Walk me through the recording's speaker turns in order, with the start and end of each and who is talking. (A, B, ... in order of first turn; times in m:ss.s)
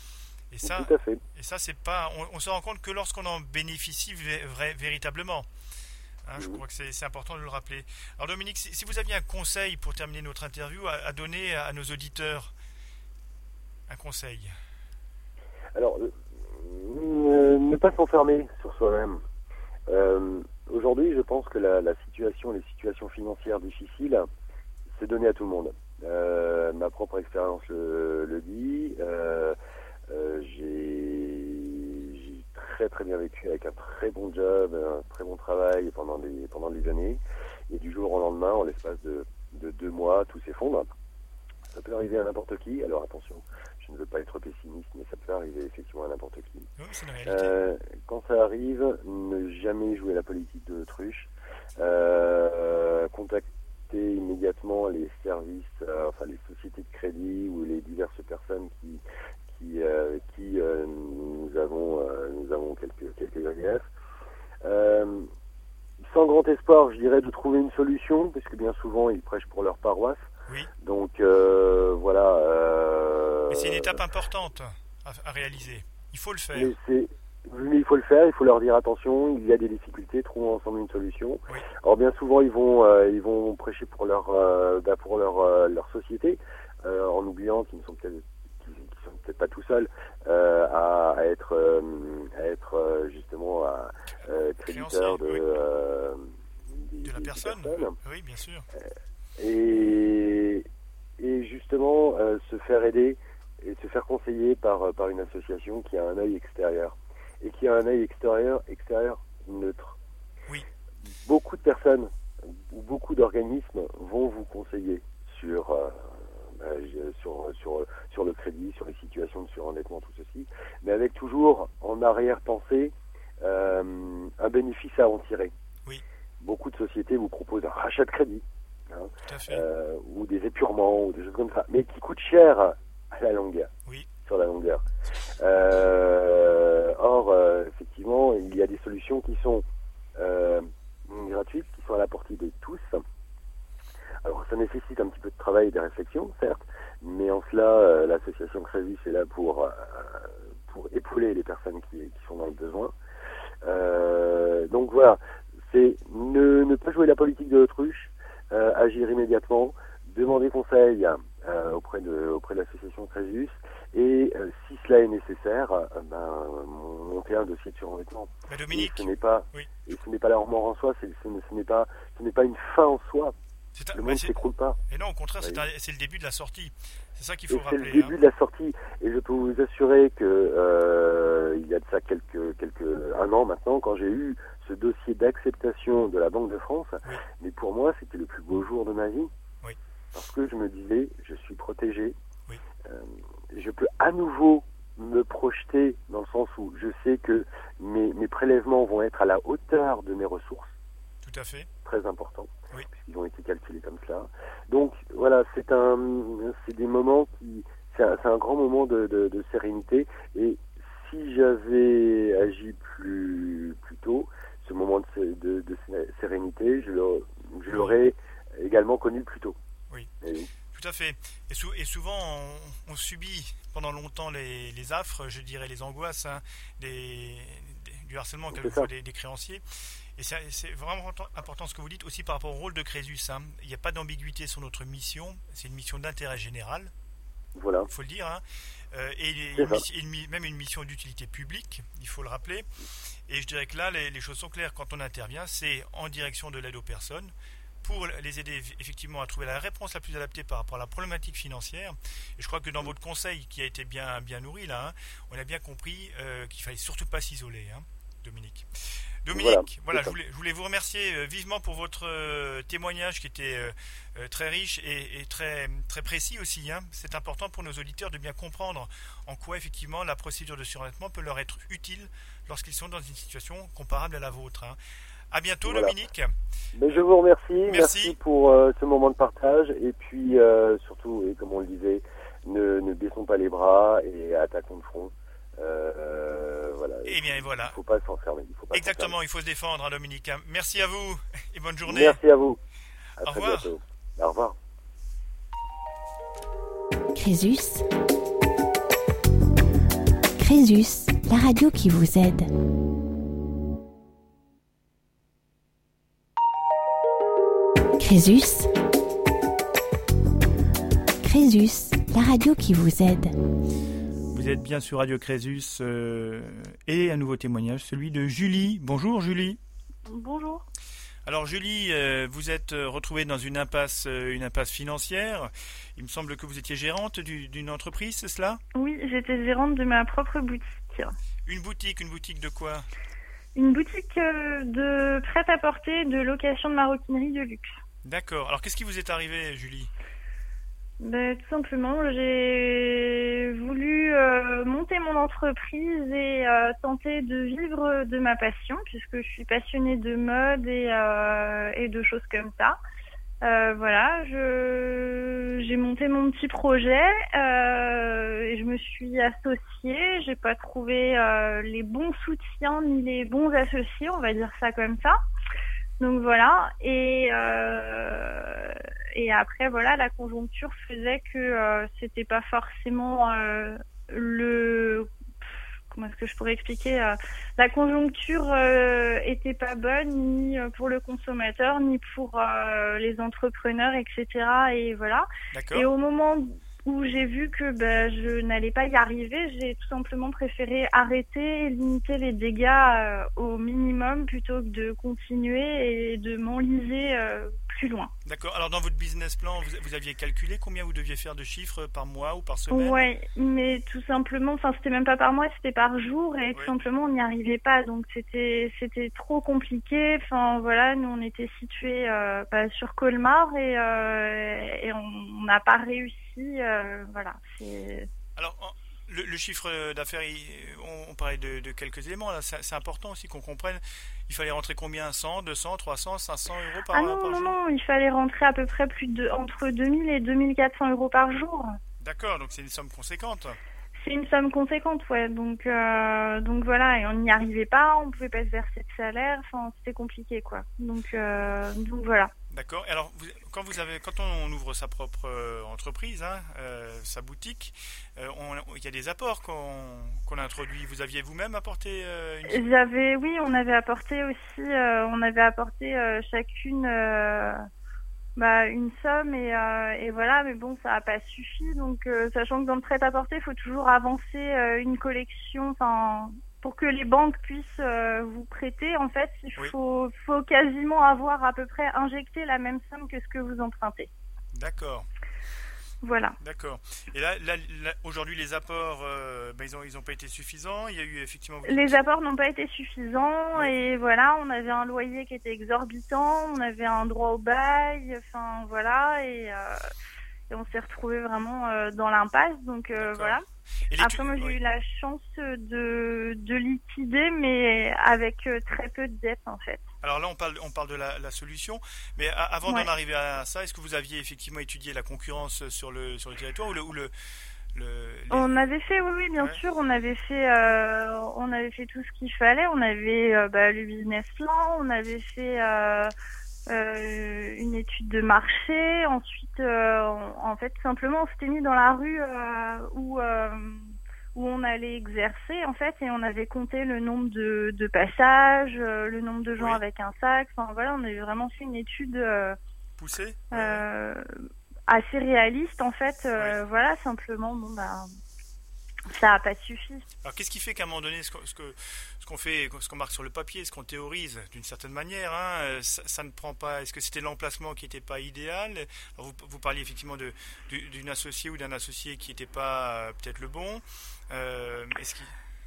0:00.5-0:05.5 A
0:00.6-0:01.2 B
0:06.2-0:12.5 A
0:13.9-0:14.5 A
0:15.7-0:19.2 B
0:19.9-0:24.3 B
0:24.9-0:29.6 B
0:30.1-0:40.9 B
0:41.7-0:46.7 B
0:46.8-0:47.5 A
0:47.2-1:03.8 B
1:04.6-1:05.3 B
1:06.0-1:10.3 B
1:10.8-1:14.0 B
1:13.5-1:16.7 A
1:16.5-1:38.0 B
1:34.6-1:35.4 A
1:37.0-1:38.7 A
1:38.7-1:40.7 B
1:41.2-1:50.0 B
1:51.2-2:05.5 B
2:06.4-2:13.7 B
2:09.3-2:09.6 A
2:14.2-2:19.6 B
2:20.2-2:23.0 B
2:24.2-2:32.9 B
2:33.6-2:53.4 B
2:48.5-2:49.7 A
2:53.8-2:54.4 A
2:53.9-2:54.8 B
2:54.9-2:58.1 A
2:57.5-3:09.3 B
3:10.1-3:12.1 B
3:12.8-3:20.7 B
3:21.2-3:21.7 A
3:21.8-3:39.6 B
3:37.7-3:38.0 A
3:40.2-3:40.5 B
3:40.7-3:56.9 A
3:48.5-3:48.9 B
3:57.6-3:57.9 B
3:57.9-4:02.6 A
3:59.6-3:59.8 B
4:03.3-4:07.3 A
4:07.8-4:18.7 A
4:19.2-4:34.8 A
4:19.3-4:20.1 B
4:35.3-4:36.3 A
4:35.6-4:35.9 B
4:36.7-4:49.1 B
4:37.7-4:38.2 A
4:47.1-4:47.8 A
4:48.7-4:52.2 A
4:51.8-4:52.6 B
4:53.2-4:54.6 B
4:53.2-4:53.7 A
4:57.1-4:57.9 C
5:00.4-5:02.5 C
5:08.0-5:08.7 C
5:11.2-5:13.4 C
5:14.3-5:19.6 A
5:20.1-5:20.6 D
5:21.2-5:28.6 A
5:28.7-5:31.1 D
5:31.4-5:32.9 A
5:33.6-5:37.7 D
5:38.0-5:39.9 A
5:41.0-5:52.8 D
5:53.4-6:05.2 D
6:06.0-6:15.1 D
6:15.9-6:38.1 D
6:25.5-6:25.9 A
6:38.2-6:43.1 A
6:42.7-6:58.1 D
6:58.4-7:07.5 A
7:06.9-7:11.7 D
7:12.0-7:13.6 A
7:14.0-7:22.3 D
7:22.5-7:32.6 A
7:32.5-7:37.6 D
7:38.4-7:54.1 D
7:54.5-7:55.1 A
7:56.0-7:56.4 D
7:56.4-8:02.0 A
8:01.6-8:09.8 D
8:10.5-8:13.4 D
8:13.0-8:13.4 A
8:13.9-8:14.6 A
8:14.0-8:19.8 D
8:20.0-8:27.1 A
8:27.7-8:28.5 A
8:28.3-8:36.1 D
8:36.7-8:43.8 D
8:44.4-8:52.6 D
8:53.0-8:53.8 A
8:53.5-8:54.2 D
8:54.9-8:58.1 D
8:59.1-9:00.1 D
9:00.2-9:15.3 A